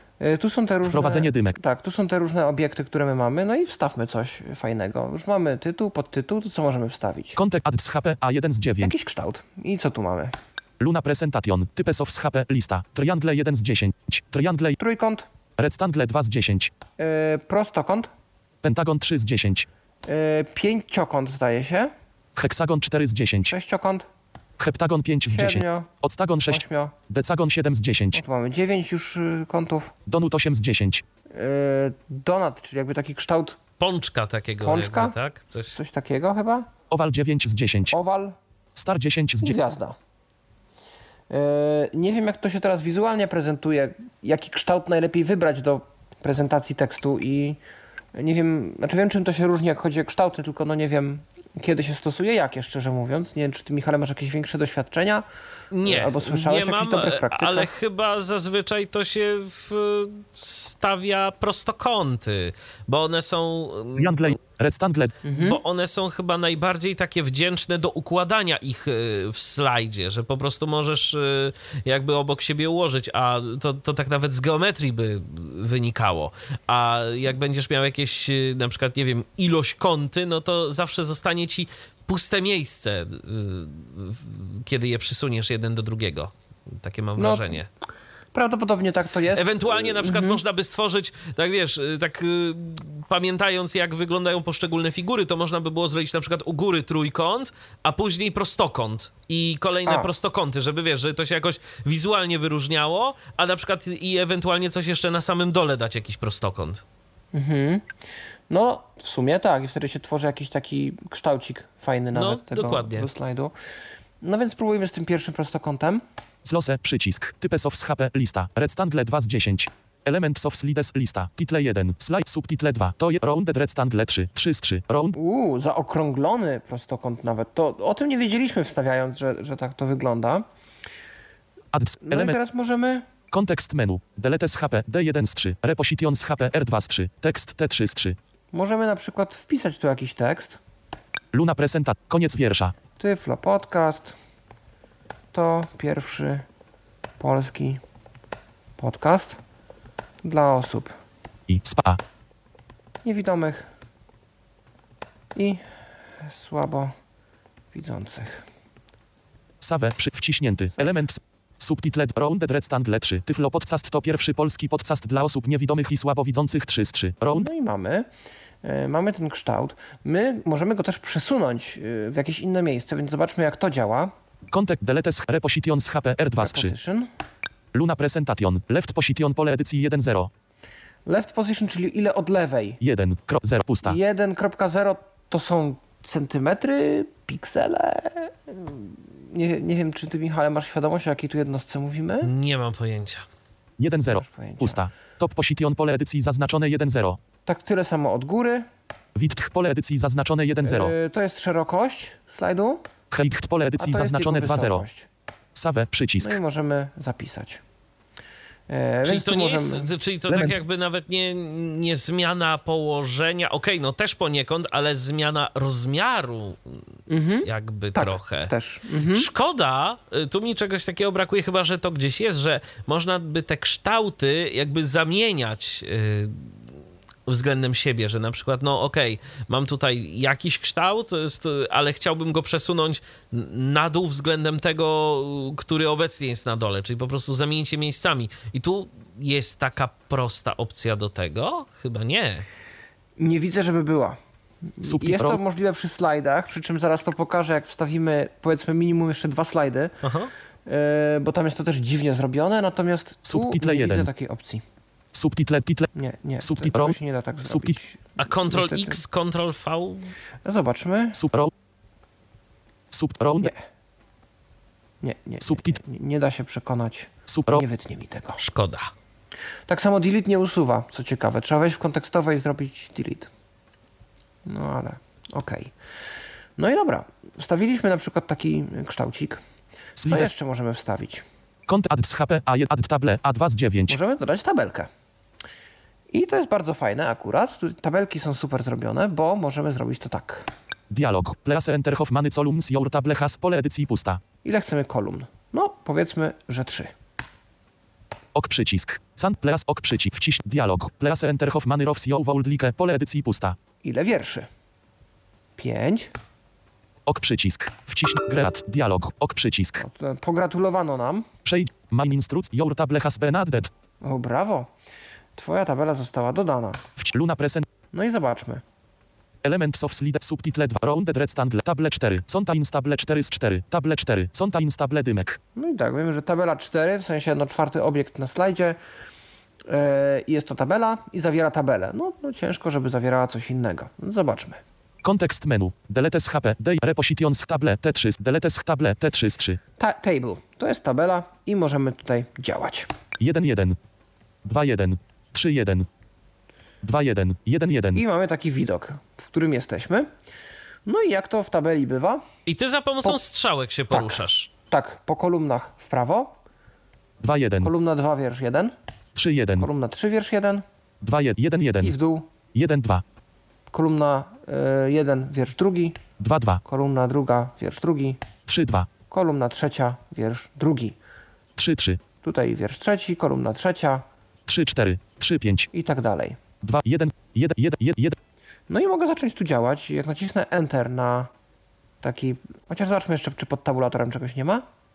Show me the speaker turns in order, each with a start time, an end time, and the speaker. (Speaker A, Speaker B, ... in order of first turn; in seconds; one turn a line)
Speaker A: 0.2-7.4
Speaker B: 0.8-1.6
Speaker B: 7.4-8.9
Speaker A: 8.8-10.3
Speaker B: 10.8-14.8
Speaker A: 14.8-15.3
Speaker B: 15.6-16.7
Speaker A: 17.0-18.1
Speaker B: 18.6-19.7
Speaker A: 20.1-21.9
Speaker B: 22.4-23.5
Speaker A: 23.5-24.1
Speaker B: 24.6-28.2
Speaker A: 25.3-25.9
Speaker A: 26.5-26.9
Speaker A: 28.1-29.9
Speaker B: 30.1-31.0
Speaker A: 31.3-33.6
Speaker C: 33.8-35.8
Speaker A: 34.6-35.2
Speaker A: 35.7-36.7
Speaker B: 36.9-38.0
Speaker A: 37.9-38.4
Speaker B: 38.8-39.6
Speaker A: 39.4-40.0
Speaker A: 41.3-47.6
Speaker A: 48.1-55.3
Speaker C: 55.7-64.3
Speaker A: 55.8-57.7
Speaker B: 64.0-65.2
Speaker A: 65.2-65.6
Speaker C: 65.3-87.7
Speaker A: 87.2-87.6
Speaker A: 88.3-90.4
Speaker C: 89.3-106.8
Speaker A: 107.3-107.9
Speaker A: 108.5-113.5
Speaker C: 112.1-113.1
Speaker A: 114.2-116.0
Speaker B: 116.4-125.2
Speaker A: 125.1-130.4
Speaker B: 131.7-132.4
Speaker A: 132.0-133.1
Speaker B: 133.3-138.2
Speaker A: 138.5-140.6
Speaker B: 141.3-142.8
Speaker A: 143.0-144.2
Speaker A: 145.3-146.5
Speaker A: 147.2-147.8
Speaker A: 148.8-149.4
Speaker A: 150.2-150.9
Speaker B: 151.5-152.0
Speaker A: 153.0-153.7
Speaker A: 155.3-155.6
Speaker A: 156.2-156.9
Speaker A: 157.7-158.5
Speaker B: 159.6-167.5
Speaker A: 160.8-161.0
Speaker A: 167.4-168.1
Speaker A: 168.6-174.1
Speaker B: 174.5-176.7
Speaker A: 176.4-177.1
Speaker B: 177.7-180.3
Speaker A: 181.1-182.8
Speaker B: 182.8-184.0
Speaker A: 183.8-192.3
Speaker C: 192.2-193.2
Speaker B: 193.8-197.2
Speaker A: 194.1-194.9
Speaker A: 197.5-198.7
Speaker B: 199.2-200.9
Speaker A: 200.6-202.8
Speaker B: 203.1-204.9
Speaker A: 203.8-205.1
Speaker B: 205.5-206.4
Speaker A: 206.2-207.6
Speaker A: 208.7-209.9
Speaker C: 209.1-216.8
Speaker B: 210.3-210.6
Speaker A: 217.1-219.3
Speaker C: 217.4-218.5
Speaker C: 219.1-226.7
Speaker C: 227.3-242.5
Speaker A: 243.2-250.0
Speaker B: 244.8-245.4
Speaker C: 250.0-250.3
Speaker A: 250.7-254.6
Speaker B: 253.3-254.1
Speaker B: 255.1-257.8
Speaker A: 255.9-259.0
Speaker C: 258.2-260.1
Speaker A: 260.4-261.2
Speaker B: 261.1-261.5
Speaker B: 262.9-263.5
Speaker A: 265.0-268.4
Speaker B: 265.4-265.8
Speaker B: 267.3-267.6
Speaker C: 268.4-268.9
Speaker A: 269.7-273.3
Speaker A: 274.5-275.7
Speaker A: 276.6-279.4
Speaker B: 280.0-280.3
Speaker A: 280.1-281.2
Speaker B: 281.7-284.0
Speaker A: 283.9-284.9
Speaker A: 286.1-290.5
Speaker B: 290.9-294.2
Speaker A: 294.4-296.9
Speaker B: 298.3-303.6
Speaker A: 303.8-304.5
Speaker A: 305.6-306.1
Speaker B: 307.1-309.8
Speaker A: 309.8-311.3
Speaker B: 311.4-313.7
Speaker A: 314.0-314.7
Speaker A: 315.4-316.8
Speaker B: 317.0-317.7
Speaker A: 317.9-318.6
Speaker B: 319.4-325.4
Speaker A: 325.6-328.8
Speaker A: 329.7-334.6
Speaker B: 335.0-339.6
Speaker A: 339.8-342.9
Speaker B: 343.2-343.8
Speaker B: 344.4-345.9
Speaker B: 346.8-348.0
Speaker A: 347.9-350.1
Speaker A: 350.9-352.2
Speaker C: 352.5-354.5
Speaker A: 353.9-356.3
Speaker B: 357.2-357.7
Speaker A: 357.6-358.7
Speaker B: 359.1-359.7
Speaker A: 359.6-360.6
Speaker B: 361.0-361.9
Speaker A: 361.8-362.3
Speaker B: 362.5-363.0
Speaker A: 363.7-366.0
Speaker B: 366.2-366.6
Speaker A: 366.6-368.2
Speaker B: 368.5-368.9
Speaker A: 369.1-371.0
Speaker B: 371.6-372.0
Speaker A: 372.2-374.0
Speaker B: 374.5-375.7
Speaker A: 375.7-376.4
Speaker B: 376.6-378.2
Speaker A: 378.7-381.3
Speaker A: 382.0-384.6